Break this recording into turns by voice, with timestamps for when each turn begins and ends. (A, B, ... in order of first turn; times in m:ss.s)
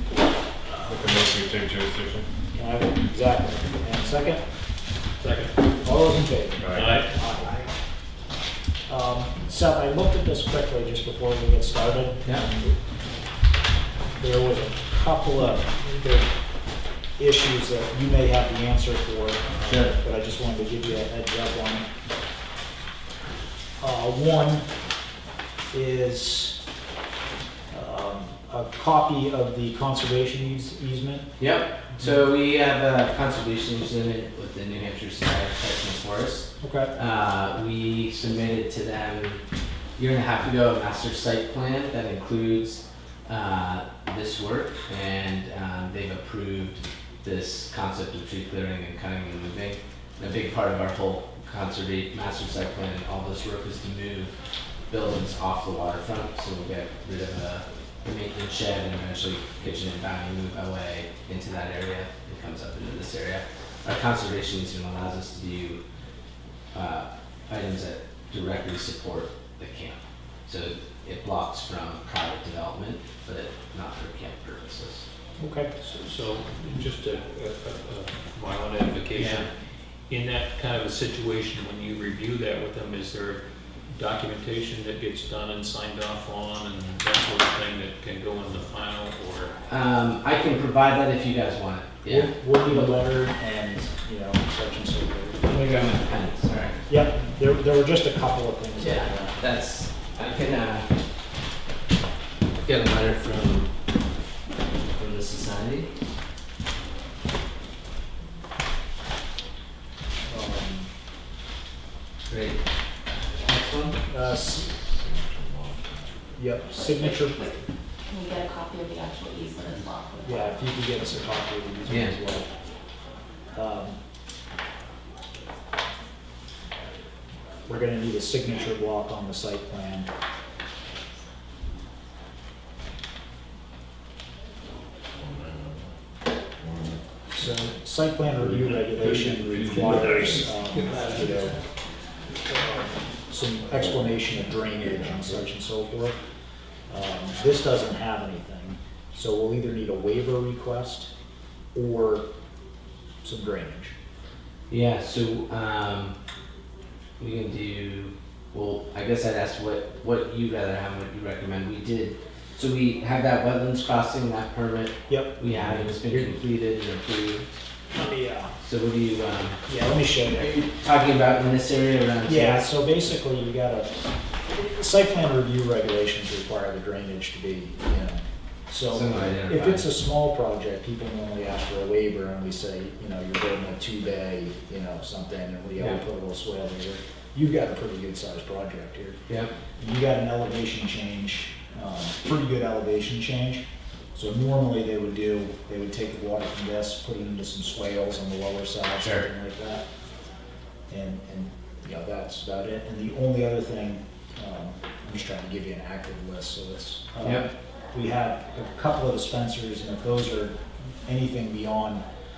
0:00.8-0:02.2 A
0:02.5-0:04.4 B
0:05.2-0:05.5 C
0:05.8-0:07.7 B
0:06.6-0:07.0 A
0:06.7-0:07.1 C
0:08.9-0:12.8 B
0:14.2-0:16.3 B
0:17.2-0:21.8 B
0:19.6-0:19.9 D
0:23.8-0:24.6 B
0:25.7-0:26.6 B
0:27.7-0:31.3 B
0:31.4-0:39.4 D
0:36.6-0:36.9 B
0:40.0-0:54.3 D
0:54.9-1:05.8 D
1:06.7-1:15.0 D
1:15.4-1:15.7 B
1:15.8-1:19.5 C
1:19.1-1:19.4 D
1:20.1-1:23.4 C
1:23.9-1:29.5 C
1:29.7-1:33.0 D
1:32.0-1:35.4 B
1:35.4-1:36.8 D
1:36.9-1:39.4 B
1:38.8-1:40.9 D
1:42.6-1:43.7 D
1:44.9-1:45.9 D
1:50.3-1:50.9 B
1:52.3-1:52.6 D
1:53.4-1:54.0 D
1:54.1-1:54.7 B
1:54.5-1:56.3 A
1:56.4-1:57.5 B
1:56.7-1:57.6 E
1:58.1-2:00.6 E
2:00.2-2:02.5 B
2:01.9-2:02.2 D
2:03.5-2:04.0 B
2:07.7-2:10.1 B
2:15.2-2:15.8 A
2:16.6-2:17.0 A
2:17.3-2:21.6 B
2:18.5-2:21.4 C
2:23.3-2:26.2 B
2:26.9-2:31.1 B
2:31.7-2:32.2 B
2:33.2-2:33.9 B
2:34.7-2:36.1 D
2:37.2-2:47.4 D
2:45.1-2:46.4 B
2:47.9-2:48.5 B
2:48.6-2:49.6 D
2:49.7-2:50.6 B
2:50.3-2:52.8 D
2:52.2-2:53.9 B
2:54.5-3:09.2 B
2:58.9-2:59.9 D
3:09.8-3:13.6 B
3:14.1-3:19.8 B
3:19.0-3:19.3 D
3:20.9-3:32.0 B
3:27.2-3:27.5 D